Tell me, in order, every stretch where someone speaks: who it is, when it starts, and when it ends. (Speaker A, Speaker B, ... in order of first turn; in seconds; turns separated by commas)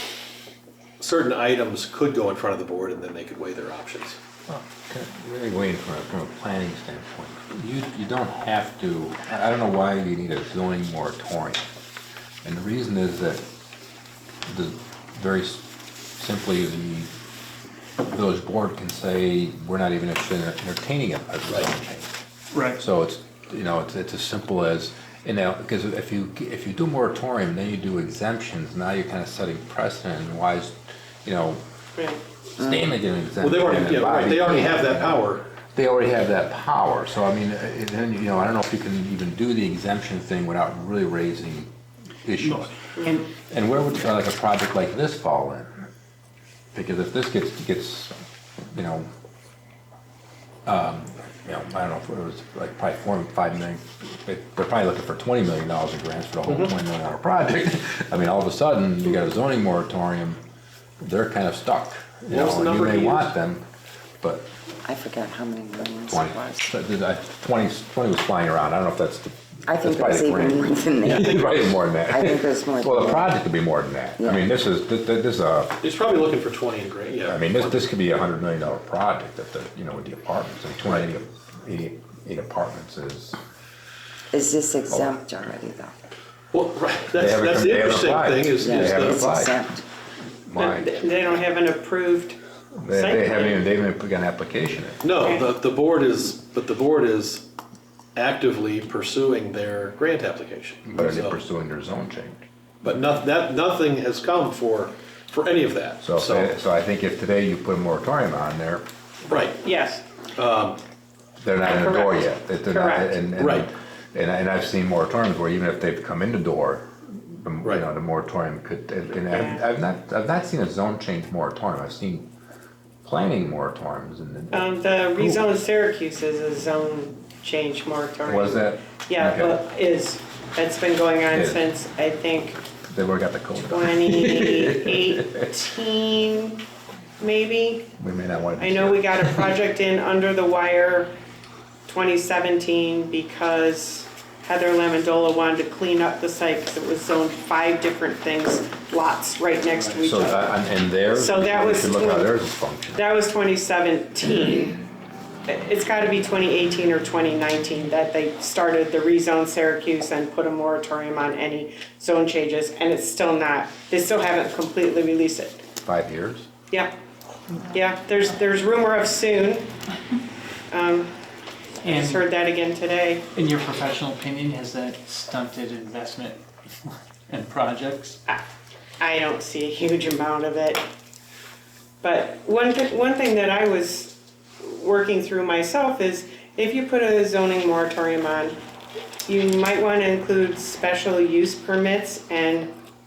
Speaker A: 1.0-4.2, Speaker B: 4.5-11.7, Speaker B: 12.4-13.4, Speaker B: 14.5-15.7, Speaker B: 16.2-17.1, Speaker B: 18.1-22.1, Speaker C: 22.5-22.8, Speaker B: 22.8-31.6, Speaker D: 32.0-32.2, Speaker B: 32.6-41.7, Speaker A: 33.4-35.5, Speaker B: 42.2-45.7, Speaker B: 46.7-48.1, Speaker B: 48.7-49.1, Speaker B: 50.7-60.4, Speaker A: 56.5-56.7, Speaker B: 61.0-63.6, Speaker A: 62.3-63.3, Speaker B: 64.2-64.5, Speaker E: 64.8-66.7, Speaker B: 66.1-75.8, Speaker E: 69.7-73.3, Speaker A: 71.1-71.5, Speaker E: 74.2-74.4, Speaker A: 75.8-77.9, Speaker B: 77.2-83.4, Speaker E: 84.3-85.9, Speaker A: 86.5-89.2, Speaker B: 87.1-89.6, Speaker E: 88.6-89.8, Speaker B: 90.5-91.0, Speaker D: 90.6-93.6, Speaker B: 92.8-95.0, Speaker A: 95.0-97.5, Speaker A: 98.2-101.4, Speaker B: 100.9-102.4, Speaker A: 102.8-106.5, Speaker B: 106.0-108.8, Speaker A: 109.3-109.6, Speaker D: 109.5-110.0, Speaker A: 110.3-110.8, Speaker B: 111.4-122.3, Speaker D: 111.6-113.2, Speaker A: 113.4-113.7, Speaker D: 119.3-119.6, Speaker B: 123.0-125.5, Speaker D: 124.5-132.6, Speaker B: 128.2-129.6, Speaker B: 131.3-131.7, Speaker B: 132.9-135.6, Speaker D: 133.7-136.6, Speaker D: 137.2-137.9, Speaker B: 138.0-139.5, Speaker D: 138.6-141.1, Speaker D: 141.9-152.3, Speaker B: 150.0-153.0, Speaker D: 152.9-154.8, Speaker D: 155.5-165.6, Speaker B: 165.8-166.5, Speaker D: 167.7-169.7, Speaker D: 170.7-171.1, Speaker C: 171.8-172.2, Speaker D: 171.8-173.3, Speaker C: 173.3-178.2, Speaker D: 179.0-180.8, Speaker D: 182.0-188.6, Speaker D: 189.3-192.7